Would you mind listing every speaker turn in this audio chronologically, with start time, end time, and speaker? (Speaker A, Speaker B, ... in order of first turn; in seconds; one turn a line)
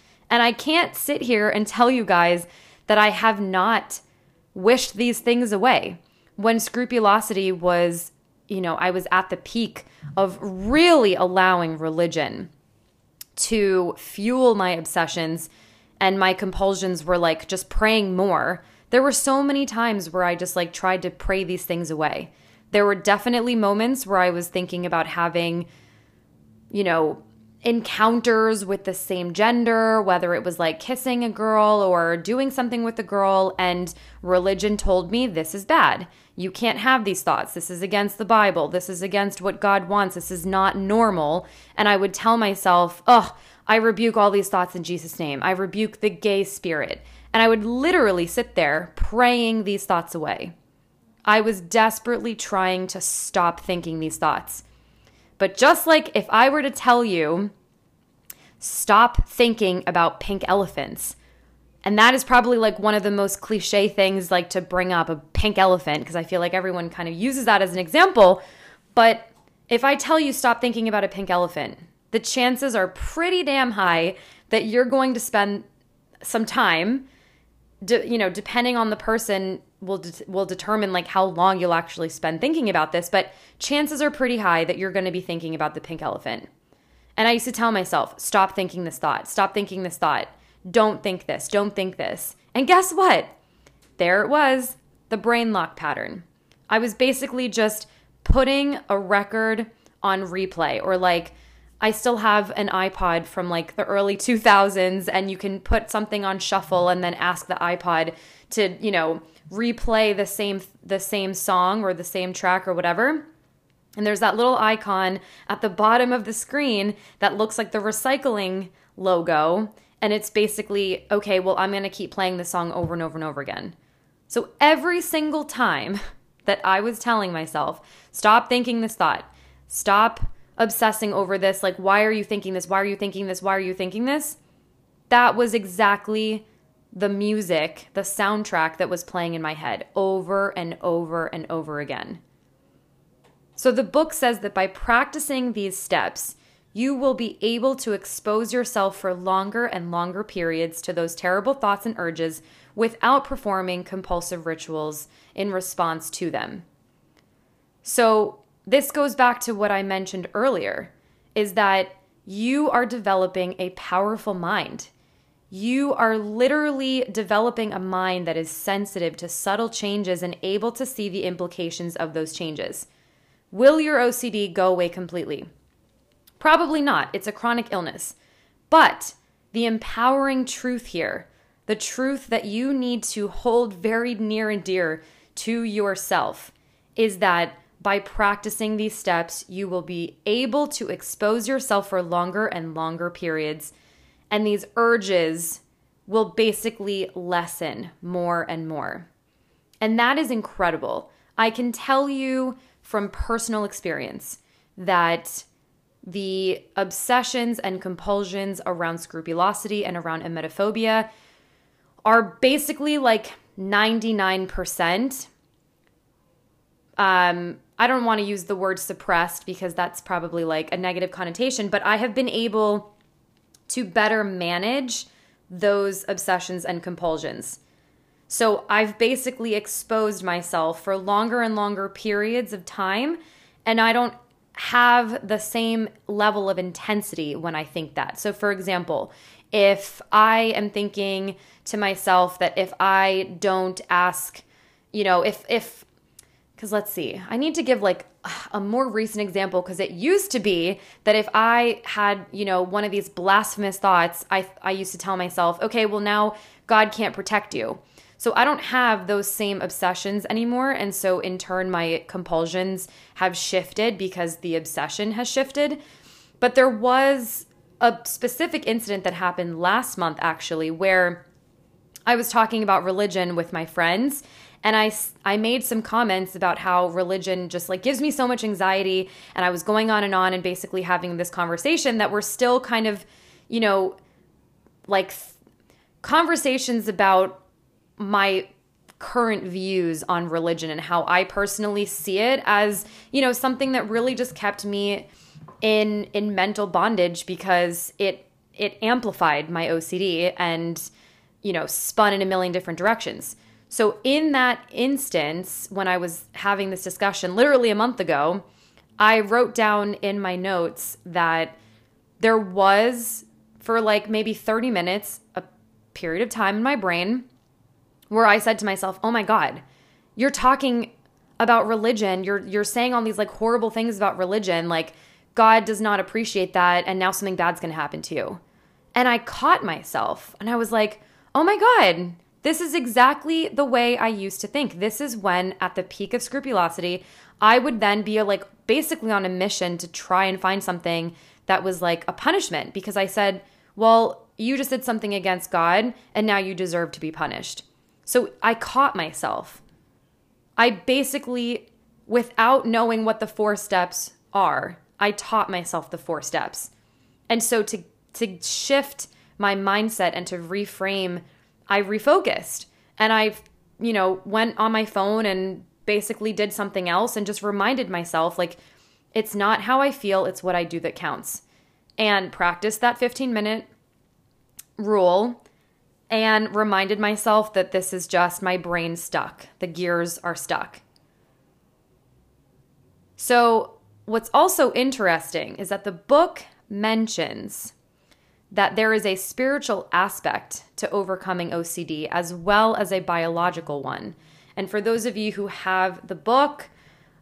Speaker A: 0.3-4.0
Speaker A: 4.5-12.5
Speaker A: 13.4-15.5
Speaker A: 16.0-25.7
Speaker A: 26.7-50.5
Speaker A: 51.3-54.6
Speaker A: 55.4-57.5
Speaker A: 58.6-61.2
Speaker A: 61.9-68.4
Speaker A: 68.9-75.7
Speaker A: 76.2-77.1
Speaker A: 77.8-86.5
Speaker A: 87.2-93.3
Speaker A: 94.0-113.3
Speaker A: 114.0-123.8
Speaker A: 124.3-134.4
Speaker A: 135.1-142.2
Speaker A: 143.6-156.7
Speaker A: 157.8-164.9
Speaker A: 165.5-172.9
Speaker A: 173.5-175.5
Speaker A: 176.4-178.2
Speaker A: 178.7-193.7
Speaker A: 194.3-199.1
Speaker A: 199.8-205.5
Speaker A: 206.1-211.1
Speaker A: 212.1-215.3
Speaker A: 217.0-222.9
Speaker A: 223.7-227.6
Speaker A: 228.3-245.9
Speaker A: 246.6-265.8
Speaker A: 266.4-271.2
Speaker A: 272.1-284.0
Speaker A: 284.9-285.4
Speaker A: 286.0-287.4
Speaker A: 288.0-295.1
Speaker A: 295.6-300.9
Speaker A: 301.4-308.4
Speaker A: 309.0-311.6
Speaker A: 312.2-317.3
Speaker A: 318.1-319.6
Speaker A: 320.2-328.4
Speaker A: 328.9-349.6
Speaker A: 350.6-356.7
Speaker A: 357.3-368.6
Speaker A: 369.1-371.4
Speaker A: 372.0-373.7
Speaker A: 374.8-375.4
Speaker A: 376.1-380.8
Speaker A: 383.2-387.7
Speaker A: 388.5-396.7